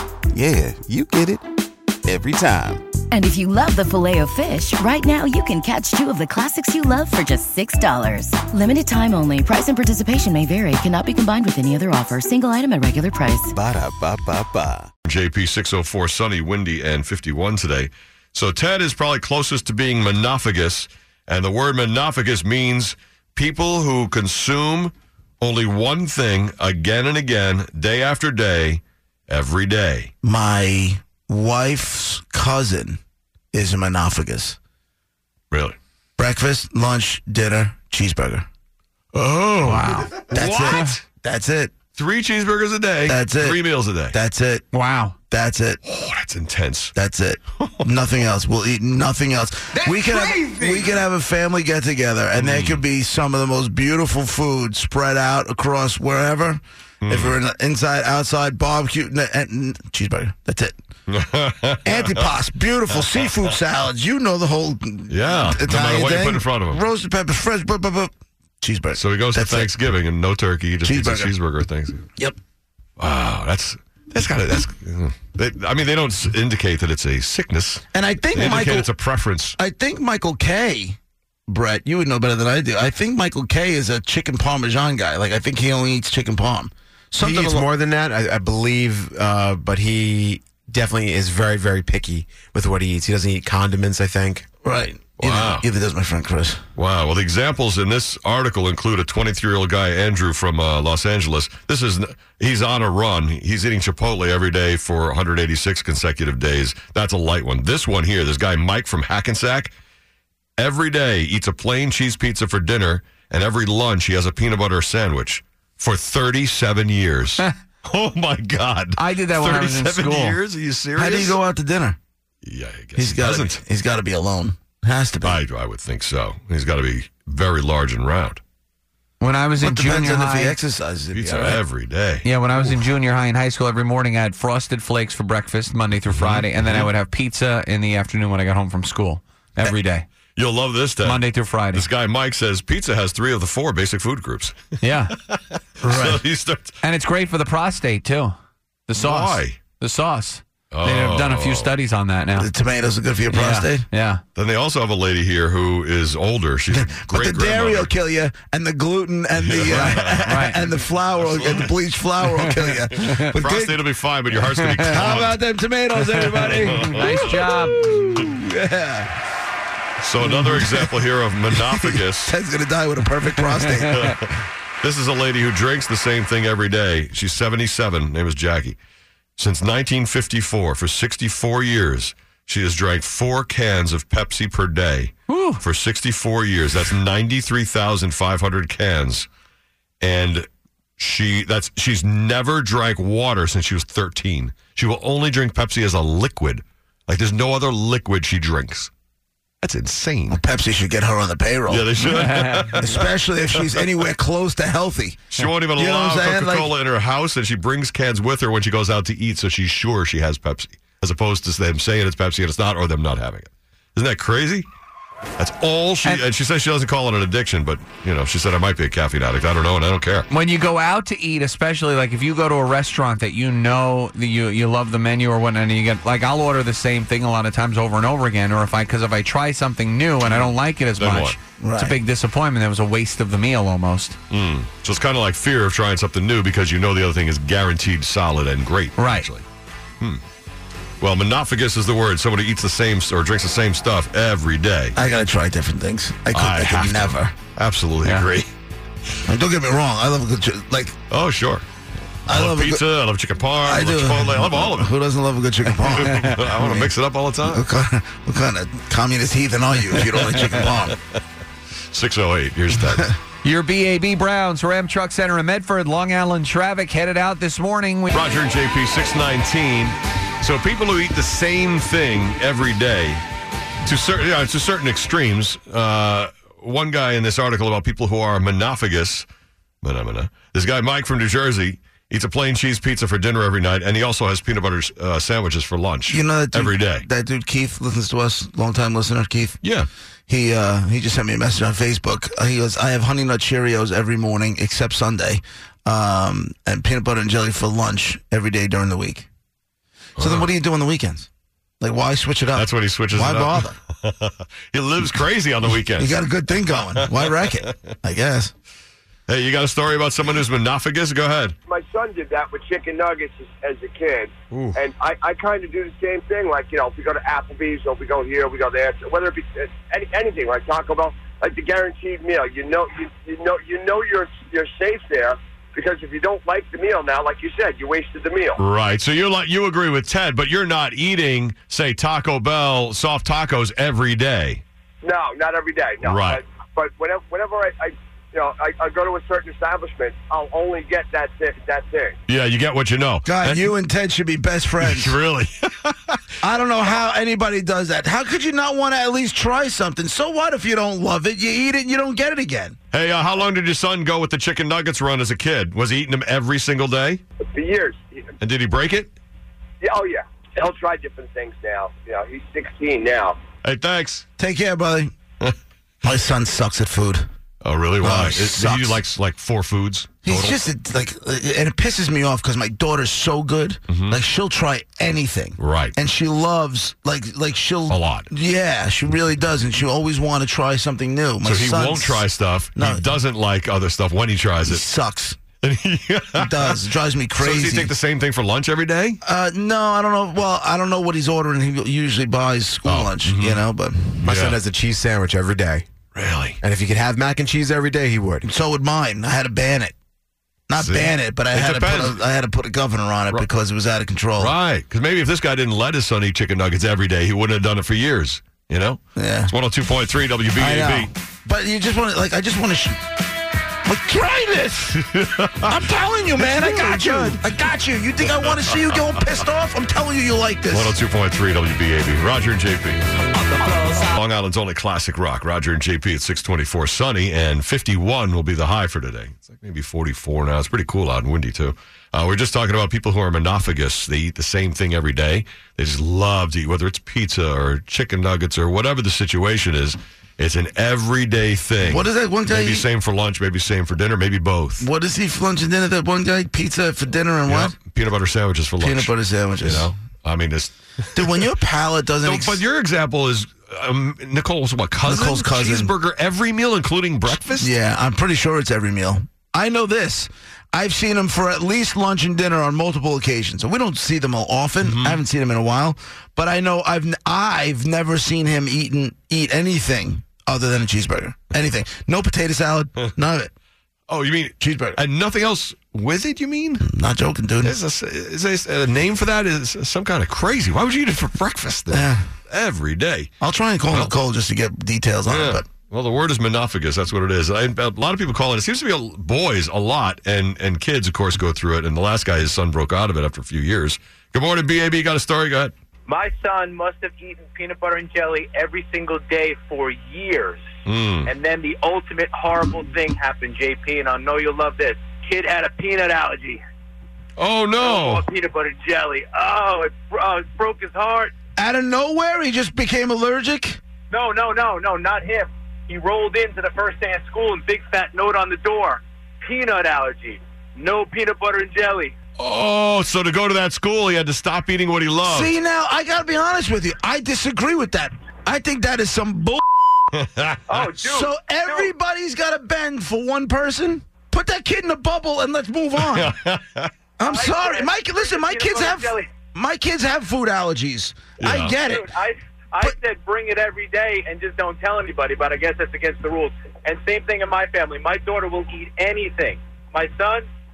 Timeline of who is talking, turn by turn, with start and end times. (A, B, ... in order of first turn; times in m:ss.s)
0:00.3-0:01.5 A
0:02.0-0:02.9 A
0:03.1-0:13.5 B
0:13.5-0:14.9 A
0:15.0-0:30.1 C
0:30.2-0:33.0 D
0:33.5-0:34.6 D
0:35.5-0:35.8 C
0:36.2-0:38.5 D
0:39.1-0:41.0 C
0:39.6-0:40.1 E
0:40.3-0:41.7 D
0:41.9-0:44.2 C
0:43.1-0:44.7 D
0:44.7-0:45.2 E
0:45.3-0:45.8 D
0:45.8-0:46.9 C
0:47.0-1:00.8 D
0:47.6-0:47.9 C
0:49.9-0:50.2 F
0:50.3-0:50.7 E
0:52.4-0:52.8 C
0:57.0-0:57.4 C
1:01.1-1:02.2 C
1:01.8-1:09.7 D
1:05.1-1:06.8 C
1:08.9-1:12.1 C
1:10.8-1:11.3 D
1:13.0-1:19.6 C
1:17.9-1:18.9 D
1:19.6-1:27.7 D
1:27.2-1:34.4 F
1:34.6-1:36.6 D
1:35.2-1:35.7 C
1:36.8-1:49.7 C
1:50.6-2:01.4 C
1:59.0-2:00.4 E
2:01.0-2:02.0 D
2:02.4-2:03.6 C
2:03.0-2:05.4 D
2:05.2-2:08.4 C
2:09.2-2:10.6 E
2:09.6-2:11.6 D
2:11.1-2:12.8 C
2:12.2-2:20.1 E
2:16.2-2:16.9 C
2:20.4-2:24.6 C
2:21.0-2:21.9 E
2:24.8-2:25.1 E
2:25.3-2:26.8 C
2:25.8-2:26.2 D
2:26.8-2:28.4 E
2:28.9-2:32.5 E
2:29.0-2:29.6 C
2:30.7-2:31.8 C
2:32.4-2:33.9 D
2:33.3-2:34.2 E
2:34.4-2:37.9 C
2:36.8-2:43.8 D
2:39.4-2:40.5 C
2:39.7-2:40.6 E
2:41.2-2:41.7 C
2:43.0-2:43.3 E
2:43.2-2:45.4 C
2:44.4-2:45.0 E
2:44.9-2:49.1 D
2:46.4-2:48.1 E
2:46.6-2:47.4 C
2:50.0-2:52.3 C
2:50.4-2:50.9 D
2:51.6-2:54.1 D
2:53.4-2:54.1 E
2:53.9-2:54.3 C
2:54.8-2:58.8 C
2:59.4-3:09.3 C
3:05.3-3:05.6 E
3:10.0-3:10.5 C
3:11.0-3:18.9 C
3:19.6-3:20.4 C
3:20.3-3:21.9 D
3:21.7-3:23.1 C
3:22.0-3:23.0 E
3:22.8-3:25.2 D
3:25.3-3:34.7 C
3:25.8-3:26.7 D
3:35.4-3:40.3 C
3:40.3-3:54.2 E
3:51.0-3:51.4 C
3:51.6-3:52.0 D
3:54.3-3:59.4 C
3:59.0-3:59.3 E
4:01.0-4:05.0 C
4:05.0-4:07.3 D
4:06.3-4:08.5 C
4:08.0-4:08.3 E
4:09.3-4:11.0 D
4:11.1-4:11.6 C
4:12.3-4:12.8 D
4:12.3-4:14.9 C
4:13.6-4:16.9 D
4:15.8-4:17.7 C
4:17.4-4:21.0 D
4:20.2-4:20.9 C
4:21.9-4:23.1 C
4:22.9-4:23.1 D
4:23.4-4:28.1 E
4:28.1-4:33.2 C
4:33.8-4:39.3 C
4:39.8-4:47.0 C
4:46.1-4:49.6 D
4:49.6-4:49.9 C
4:50.3-4:59.3 D
5:00.2-5:00.5 C
5:00.2-5:01.3 D
5:01.8-5:03.8 D
5:02.5-5:07.8 C
5:06.0-5:08.5 D
5:09.3-5:11.6 C
5:11.7-5:28.6 G
5:14.5-5:14.8 C
5:28.6-5:34.6 C
5:35.0-5:42.2 G
5:36.0-5:36.4 C
5:42.3-5:43.7 C
5:43.2-5:45.2 D
5:44.8-5:46.2 C
5:46.4-5:52.8 D
5:52.9-5:57.2 C
5:57.4-5:58.3 G
5:58.4-5:59.1 C
5:59.8-6:03.4 G
6:03.6-6:04.2 C
6:04.4-6:05.1 D
6:06.0-6:07.3 D
6:07.6-6:10.6 C
6:08.0-6:09.0 D
6:10.2-6:23.1 D
6:13.9-6:14.2 C
6:15.6-6:16.0 C
6:17.9-6:18.3 C
6:21.4-6:24.8 C
6:24.6-6:25.4 D
6:25.6-6:26.8 C
6:26.4-6:28.0 D
6:27.4-6:29.2 C
6:29.2-6:34.3 D
6:32.9-6:33.7 C
6:34.2-6:34.6 C
6:34.2-6:35.9 F
6:36.2-6:36.6 C
6:36.6-6:38.5 F
6:38.4-6:40.0 D
6:40.7-6:44.6 D
6:40.8-6:42.2 C
6:44.4-6:51.1 C
6:49.2-6:49.5 D
6:50.6-6:53.0 D
6:53.9-6:55.1 D
6:55.1-6:55.8 C
6:55.6-7:01.0 D
6:56.4-6:57.4 C
6:58.2-6:59.1 C
7:00.7-7:03.0 C
7:03.9-7:24.9 C
7:21.8-7:22.9 D
7:24.8-7:27.8 D
7:27.4-7:31.5 C
7:28.8-7:29.9 D
7:31.2-7:32.6 D
7:32.2-7:37.7 C
7:35.0-7:35.9 D
7:37.6-7:53.5 D
7:44.8-7:45.2 C
7:54.1-7:56.8 C
7:54.6-7:55.0 D
7:56.8-7:57.8 D
7:57.6-8:03.3 C
8:01.9-8:02.2 D
8:03.4-8:05.6 D
8:05.3-8:15.7 C
8:16.1-8:20.6 H
8:20.9-8:21.3 C
8:21.3-8:26.6 H
8:27.4-8:28.3 C
8:27.8-8:31.3 H
8:31.6-8:33.8 D
8:34.1-8:42.2 H
8:42.4-8:45.5 C
8:45.2-8:49.6 D
8:50.2-8:51.1 C
8:50.7-8:51.9 H
8:51.1-8:56.3 D
8:56.0-8:56.9 C
8:57.2-9:02.1 D
8:57.2-8:59.3 H
9:01.4-9:01.8 C
9:01.9-9:10.5 H